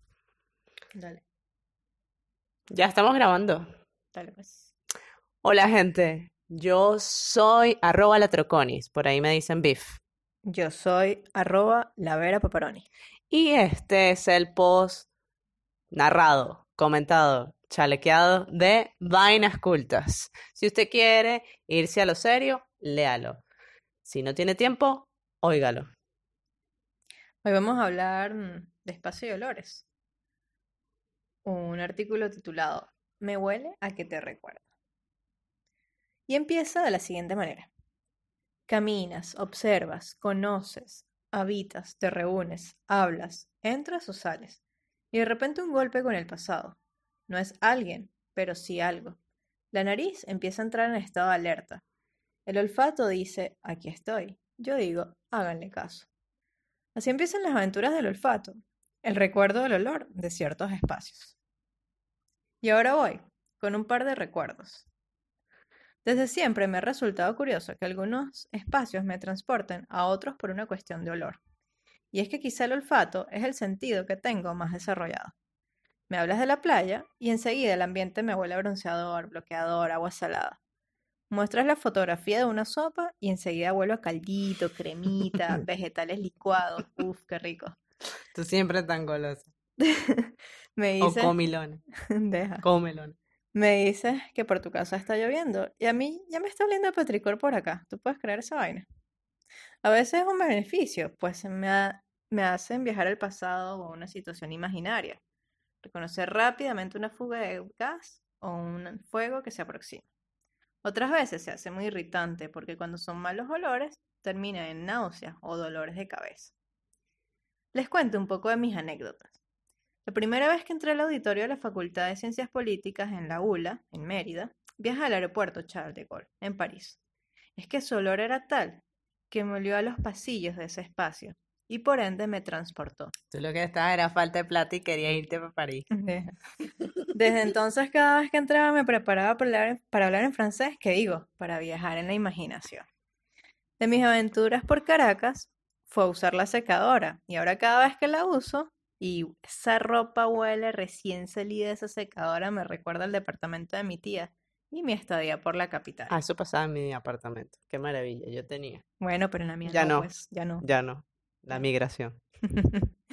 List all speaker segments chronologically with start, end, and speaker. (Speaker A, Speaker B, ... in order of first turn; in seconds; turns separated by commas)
Speaker A: 0.9-1.2, Speaker B: 2.7-3.7, Speaker A: 4.1-4.7, Speaker B: 5.4-10.0, Speaker A: 10.5-12.9, Speaker B: 13.3-15.1, Speaker B: 15.9-23.4, Speaker B: 24.1-25.9, Speaker A: 27.4-29.9, Speaker A: 31.4-34.6, Speaker A: 36.3-37.7, Speaker A: 38.7-44.6, Speaker A: 45.1-49.2, Speaker A: 49.7-51.8, Speaker A: 52.5-56.1, Speaker A: 57.0-61.4, Speaker A: 62.6-64.9, Speaker A: 66.0-71.4, Speaker A: 72.1-75.3, Speaker A: 76.1-80.6, Speaker A: 81.3-87.8, Speaker B: 88.3-89.5, Speaker A: 89.8-91.3, Speaker B: 91.0-91.8, Speaker A: 92.1-92.7, Speaker B: 92.6-93.2, Speaker A: 93.5-98.9, Speaker A: 99.8-105.2, Speaker A: 105.8-110.1, Speaker A: 110.8-116.5, Speaker A: 117.7-119.3, Speaker A: 120.1-127.0, Speaker A: 127.6-133.1, Speaker B: 133.3-135.9, Speaker A: 135.9-136.3, Speaker A: 137.1-142.9, Speaker A: 143.8-156.1, Speaker B: 156.1-158.8, Speaker A: 159.0-160.6, Speaker B: 159.7-160.1, Speaker B: 160.6-162.2, Speaker A: 162.5-162.9